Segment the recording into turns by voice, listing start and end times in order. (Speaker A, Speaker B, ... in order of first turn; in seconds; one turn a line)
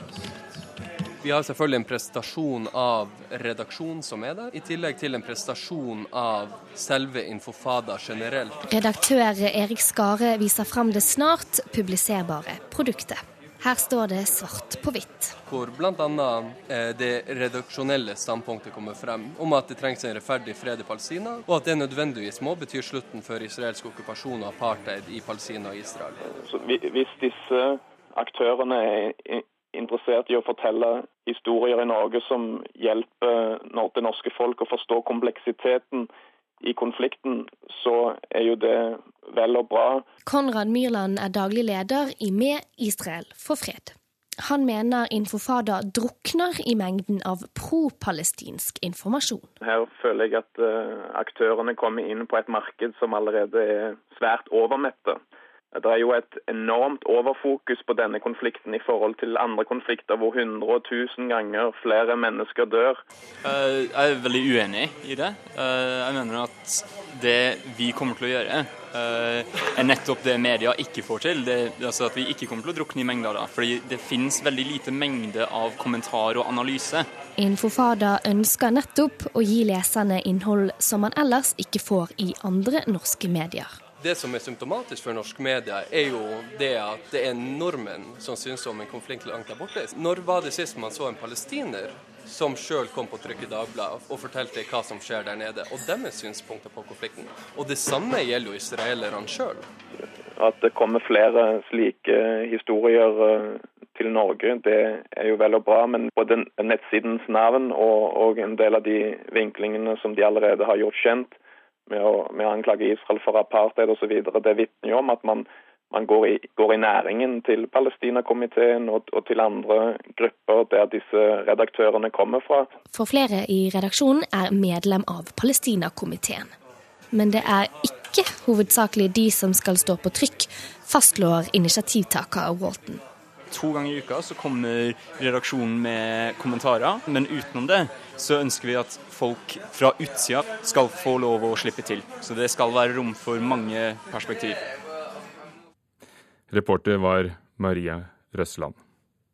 Speaker A: 1.2-8.6
Speaker B: 8.7-15.4
Speaker A: 15.5-26.2
Speaker C: 26.2-36.1
Speaker C: 36.6-40.0
Speaker B: 40.3-49.5
Speaker C: 49.6-55.2
Speaker C: 55.7-63.0
Speaker D: 63.4-77.1
Speaker B: 77.4-83.8
Speaker A: 84.0-99.7
Speaker C: 100.4-111.3
Speaker C: 111.9-122.7
Speaker B: 122.9-126.5
Speaker B: 127.1-133.0
Speaker D: 133.5-144.6
Speaker E: 146.5-148.8